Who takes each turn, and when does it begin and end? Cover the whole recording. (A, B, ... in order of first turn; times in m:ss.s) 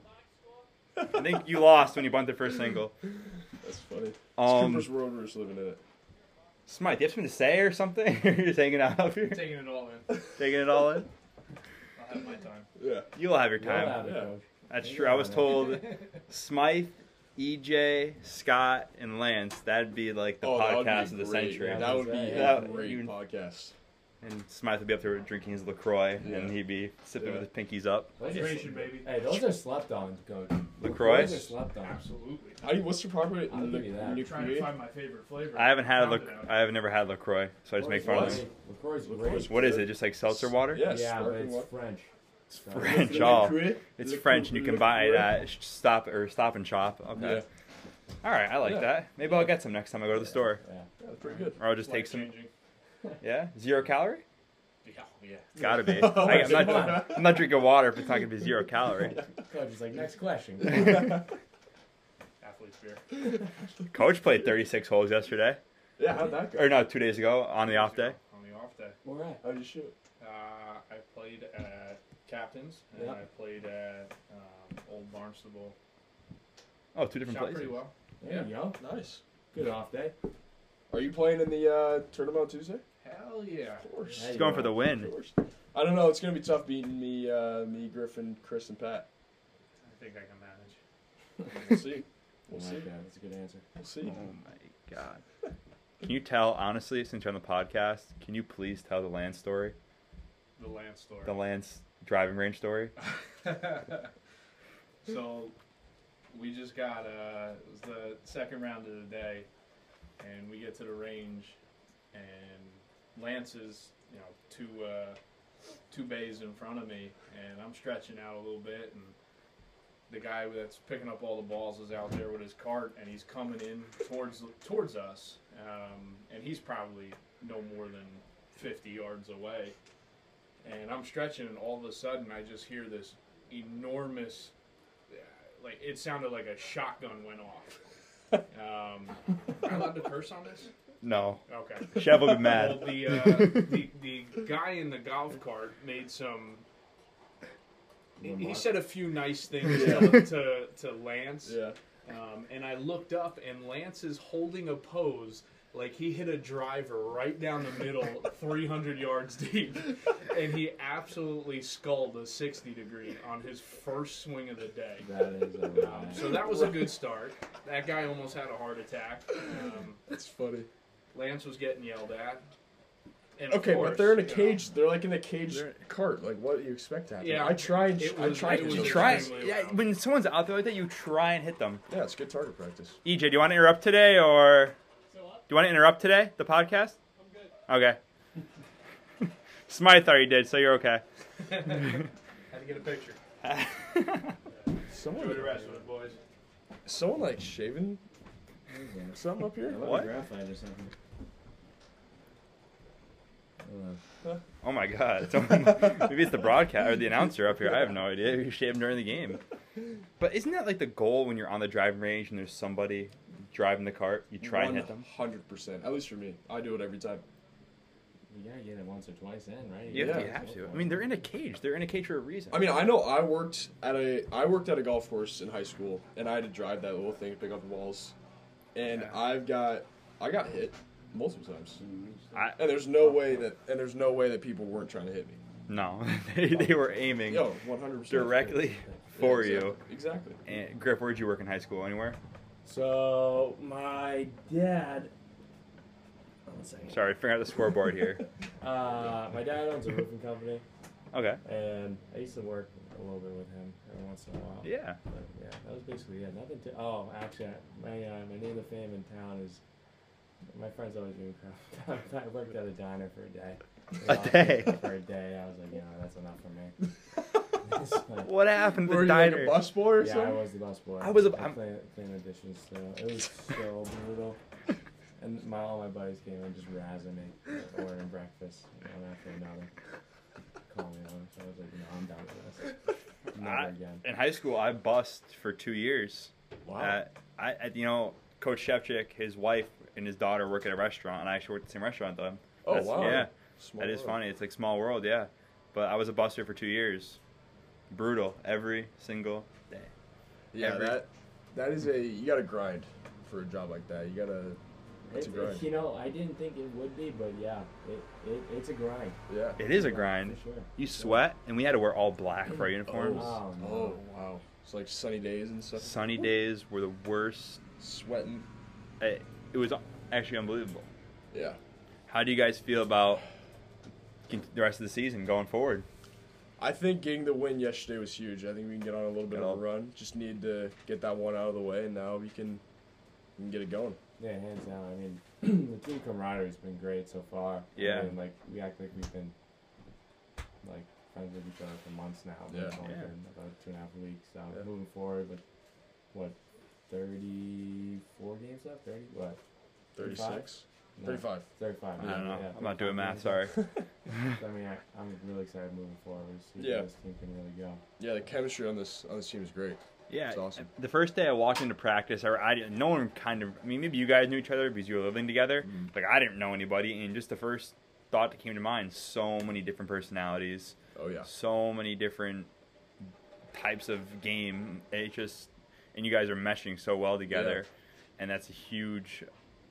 0:01.1-0:03.0 A
0:03.6-0:05.8 B
0:04.4-0:04.9 A
0:06.7-0:09.5 A
0:09.2-0:10.3 C
0:10.4-0:11.1 A
0:12.0-0:12.7 C
0:12.8-0:13.1 B
0:13.2-0:14.1 A
0:13.6-0:15.6 D
0:14.0-0:14.3 B
0:14.7-0:23.1 A
0:15.8-0:16.1 C
0:20.4-0:23.7 B
0:21.6-0:22.7 D
0:24.2-0:28.2 A
0:26.2-0:26.6 B
0:27.2-0:27.5 B
0:28.2-0:32.0 D
0:28.2-0:29.1 C
0:30.8-0:31.5 A
0:31.0-0:31.4 B
0:31.8-0:32.7 C
0:32.6-0:34.8 B
0:33.5-0:34.4 D
0:34.0-0:36.6 C
0:35.5-0:38.4 A
0:37.8-0:39.8 D
0:38.0-0:38.4 B
0:39.0-0:41.7 B
0:39.4-0:40.9 A
0:40.8-0:43.5 D
0:42.7-0:45.4 B
0:42.7-0:47.4 A
0:47.2-0:47.4 B
0:48.2-0:50.6 A
0:48.6-0:48.9 B
0:50.1-0:50.9 D
0:51.0-0:51.6 B
0:51.2-0:52.5 C
0:51.6-0:52.4 A
0:53.2-0:54.2 A
0:54.8-0:55.6 C
0:55.6-0:57.5 B
0:55.6-0:59.2 A
0:56.1-0:57.3 D
0:59.4-1:01.2 D
1:02.4-1:03.0 C
1:03.9-1:05.6 A
1:06.0-1:06.8 B
1:06.6-1:08.2 A
1:07.6-1:09.0 C
1:09.0-1:09.4 D
1:09.4-1:10.0 B
1:10.2-1:15.8 C
1:12.9-1:13.2 D
1:17.0-1:17.8 A
1:17.2-1:18.5 C
1:18.2-1:18.8 D
1:18.8-1:19.2 B
1:19.5-1:20.2 D
1:20.9-1:22.8 B
1:23.0-1:23.9 C
1:23.8-1:29.1 B
1:24.1-1:24.8 D
1:24.3-1:25.1 A
1:29.8-1:30.8 C
1:31.5-1:32.9 B
1:32.5-1:33.6 D
1:33.8-1:34.2 B
1:34.0-1:35.2 A
1:36.0-1:39.8 A
1:40.6-1:41.4 C
1:41.2-1:42.9 A
1:43.0-1:44.1 C
1:45.0-1:45.5 C
1:46.3-1:49.5 C
1:50.2-1:51.6 C
1:52.1-1:55.2 C
1:55.9-1:59.2 C
2:00.1-2:09.8 C
2:10.6-2:14.5 C
2:15.1-2:17.8 C
2:18.5-2:20.7 C
2:21.0-2:23.8 A
2:21.5-2:26.6 C
2:28.2-2:28.9 D
2:28.2-2:45.1 C
2:29.6-2:30.3 B
2:31.4-2:31.8 B
2:45.0-2:46.4 D
2:45.8-2:50.0 C
2:46.2-2:46.9 B
2:50.1-2:50.7 B
2:51.1-2:52.5 C
2:53.4-2:54.6 C
2:53.5-2:59.4 B
2:55.5-2:55.8 A
2:57.2-2:59.8 C
2:58.4-3:01.8 A
3:01.9-3:03.0 B
3:03.0-3:04.8 A
3:05.5-3:07.0 A
3:07.7-3:08.0 A
3:09.7-3:11.0 A
3:11.5-3:13.2 C
3:13.4-3:14.4 A
3:14.9-3:15.7 B
3:15.1-3:16.2 C
3:16.9-3:18.0 B
3:18.7-3:20.9 D
3:19.2-3:19.8 B
3:19.7-3:20.1 A
3:23.6-3:24.0 D
3:24.6-3:29.4 A
3:30.2-3:35.0 A
3:34.4-3:37.2 B
3:38.3-3:41.2 D
3:39.9-3:42.7 A
3:39.9-3:40.4 B
3:42.5-3:48.2 B
3:48.7-3:51.8 B
3:51.8-3:53.2 D
3:52.3-3:52.6 A
3:52.6-3:55.4 B
3:55.7-3:57.5 A
3:56.5-3:56.9 D
3:57.3-4:00.4 B
3:58.1-3:59.8 A
4:00.5-4:02.2 A
4:02.6-4:05.1 D
4:06.5-4:07.0 D
4:06.9-4:08.2 A
4:08.6-4:10.6 D
4:11.1-4:11.4 A
4:11.4-4:19.6 D
4:14.6-4:15.0 A
4:20.5-4:26.9 D
4:24.1-4:24.8 A
4:27.6-4:28.3 D
4:28.2-4:29.7 A
4:28.7-4:30.4 B
4:30.0-4:34.4 D
4:31.0-4:31.6 A
4:35.2-4:39.7 D
4:40.7-4:42.8 D
4:43.3-4:57.2 A
4:43.4-4:44.0 D
4:46.6-4:47.0 B
4:52.6-4:54.2 B
4:57.9-4:59.9 A
5:00.5-5:04.6 B
5:00.6-5:01.0 A
5:05.1-5:10.7 D
5:05.1-5:05.6 B
5:09.3-5:09.6 B
5:09.6-5:13.3 A
5:10.9-5:11.2 B
5:12.9-5:16.0 B
5:13.1-5:14.0 D
5:15.8-5:17.6 A
5:17.8-5:18.5 B
5:19.0-5:20.9 A
5:21.3-5:21.6 B
5:22.1-5:23.2 A
5:24.3-5:25.9 A
5:26.6-5:32.6 B
5:29.3-5:29.6 A
5:33.4-5:34.0 B
5:34.2-5:39.4 D
5:37.8-5:38.1 A
5:40.6-5:45.4 D
5:42.5-5:42.8 B
5:42.8-5:43.1 A
5:46.1-5:46.4 D
5:46.9-5:49.4 D
5:50.0-5:51.5 B
5:50.0-5:53.5 D
5:52.0-5:53.6 A
5:54.3-5:57.8 D
5:56.6-5:56.9 B
5:58.0-6:00.7 B
6:00.1-6:12.5 A
6:11.0-6:11.3 B
6:13.5-6:19.3 A
6:17.3-6:17.6 B